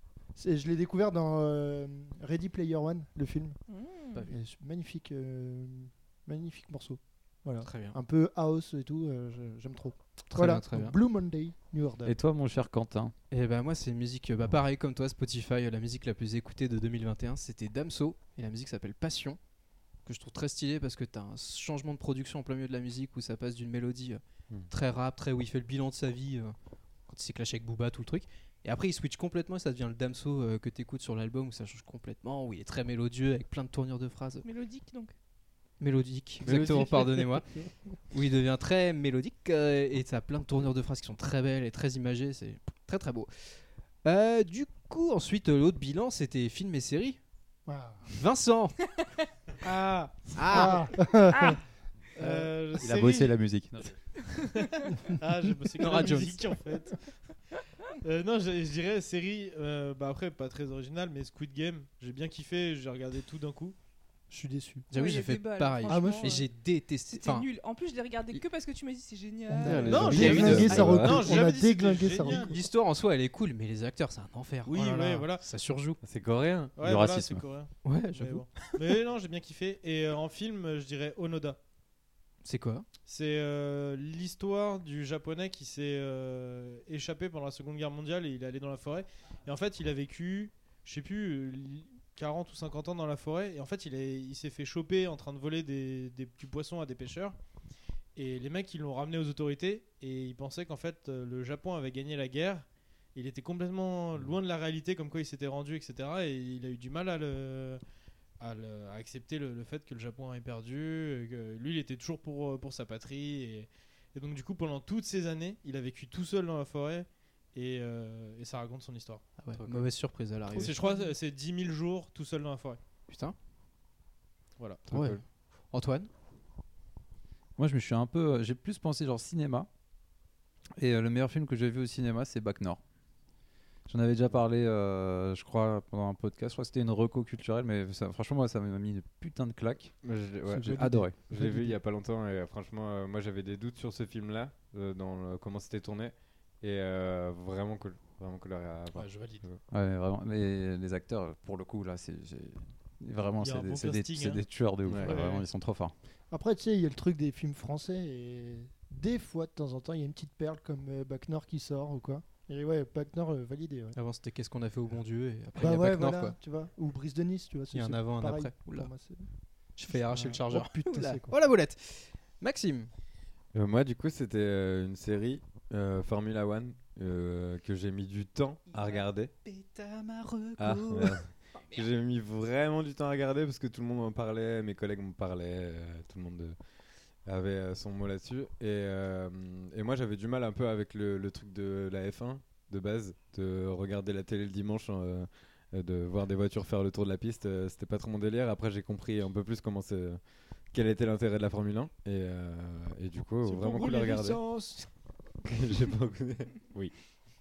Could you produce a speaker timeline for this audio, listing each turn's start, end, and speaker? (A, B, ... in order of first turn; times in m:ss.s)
0:00.4-0:03.6 A
0:03.7-0:04.3 B
0:04.3-0:12.2 A
0:07.6-0:08.0 C
0:10.3-0:11.0 C
0:12.0-0:13.1 D
0:13.3-0:19.4 C
0:20.1-0:26.6 C
0:27.1-0:34.4 C
0:34.4-0:35.1 B
0:35.8-0:37.5 C
0:36.4-0:37.3 E
0:38.1-0:47.2 C
0:47.7-0:48.1 A
0:48.1-0:48.8 C
0:49.6-0:50.8 F
0:50.3-0:50.9 C
0:50.5-0:51.6 A
0:52.2-0:52.5 A
0:52.2-0:53.4 F
0:52.8-0:53.9 D
0:54.9-0:57.1 F
0:55.8-0:56.4 C
0:58.0-1:03.8 F
1:04.3-1:04.9 A
1:04.9-1:07.5 C
1:04.9-1:06.5 B
1:05.9-1:06.4 A
1:07.1-1:10.1 B
1:09.5-1:12.5 A
1:09.6-1:11.1 C
1:09.9-1:11.5 E
1:09.9-1:12.6 F
1:12.2-1:16.0 C
1:14.6-1:15.5 F
1:16.0-1:16.8 E
1:16.8-1:21.6 F
1:16.8-1:17.4 D
1:17.8-1:18.8 C
1:22.4-1:22.9 C
1:23.1-1:37.4 F
1:38.2-1:47.8 F
1:48.4-1:59.3 F
1:59.4-1:59.9 D
1:59.5-2:00.8 C
2:00.6-2:02.8 F
2:03.1-2:03.4 C
2:04.6-2:05.0 F
2:04.9-2:05.2 C
2:05.7-2:06.1 C
2:07.6-2:09.7 D
2:10.8-2:12.8 D
2:13.9-2:19.9 D
2:20.0-2:29.6 E
2:20.5-2:21.0 A
2:20.6-2:21.2 D
2:29.0-2:29.4 C
2:29.7-2:35.9 D
2:33.4-2:35.5 F
2:34.9-2:35.2 E
2:36.3-2:44.0 A
2:44.0-2:46.4 C
2:45.6-2:49.3 A
2:47.7-2:48.9 C
2:49.8-2:52.9 C
2:49.8-2:51.4 A
2:53.5-2:59.3 E
2:58.7-3:01.8 C
3:00.6-3:06.6 E
3:07.2-3:20.2 E
3:20.7-3:24.4 E
3:23.4-3:24.9 F
3:25.4-3:26.9 E